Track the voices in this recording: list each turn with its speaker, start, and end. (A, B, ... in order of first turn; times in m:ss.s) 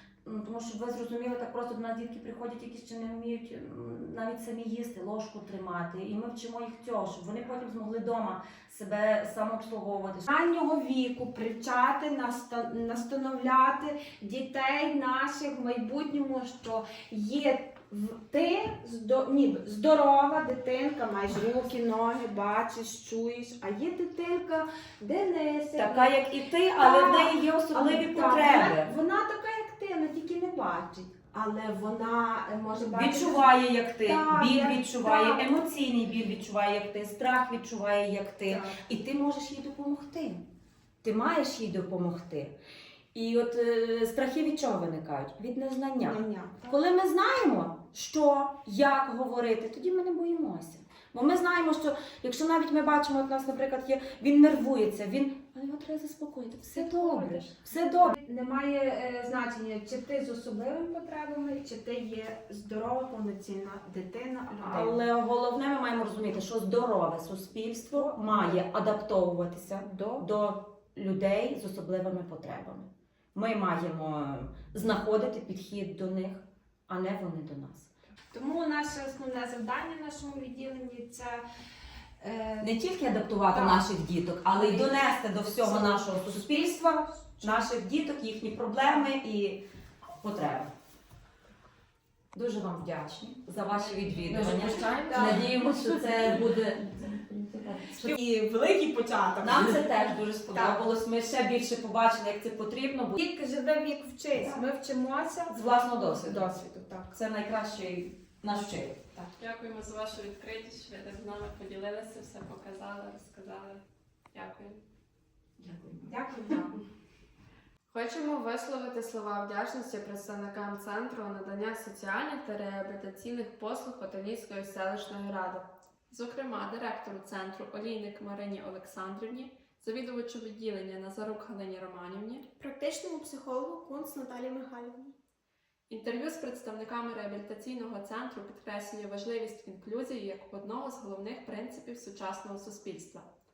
0:00.2-0:10.3 A
0:10.3-0:26.1 B
0:25.8-0:28.9 A
0:26.8-0:33.4 B
0:32.9-0:40.4 A
0:34.0-0:35.5 B
0:38.4-0:38.8 B
0:41.0-0:42.5 A
0:43.1-0:58.1 A
0:46.0-0:46.8 B
0:56.7-1:05.0 B
1:04.6-1:17.9 A
1:07.9-1:08.6 B
1:09.8-1:10.2 B
1:18.3-1:21.4 B
1:22.2-1:22.7 B
1:22.6-1:29.6 A
1:23.5-1:23.9 B
1:24.5-1:25.1 B
1:25.6-1:26.1 B
1:27.2-1:27.6 B
1:30.2-1:30.7 A
1:32.3-1:38.1 A
1:34.3-1:35.2 C
1:34.7-1:35.5 B
1:38.0-1:40.8 B
1:39.4-1:43.2 A
1:43.2-1:47.2 B
1:45.5-1:46.5 A
1:47.1-1:49.1 A
1:49.4-1:53.8 D
1:54.3-1:54.8 D
1:55.6-1:56.1 A
1:56.0-1:56.8 B
1:57.9-2:05.7 C
2:06.1-2:12.5 D
2:12.6-2:15.1 E
2:15.9-2:23.3 D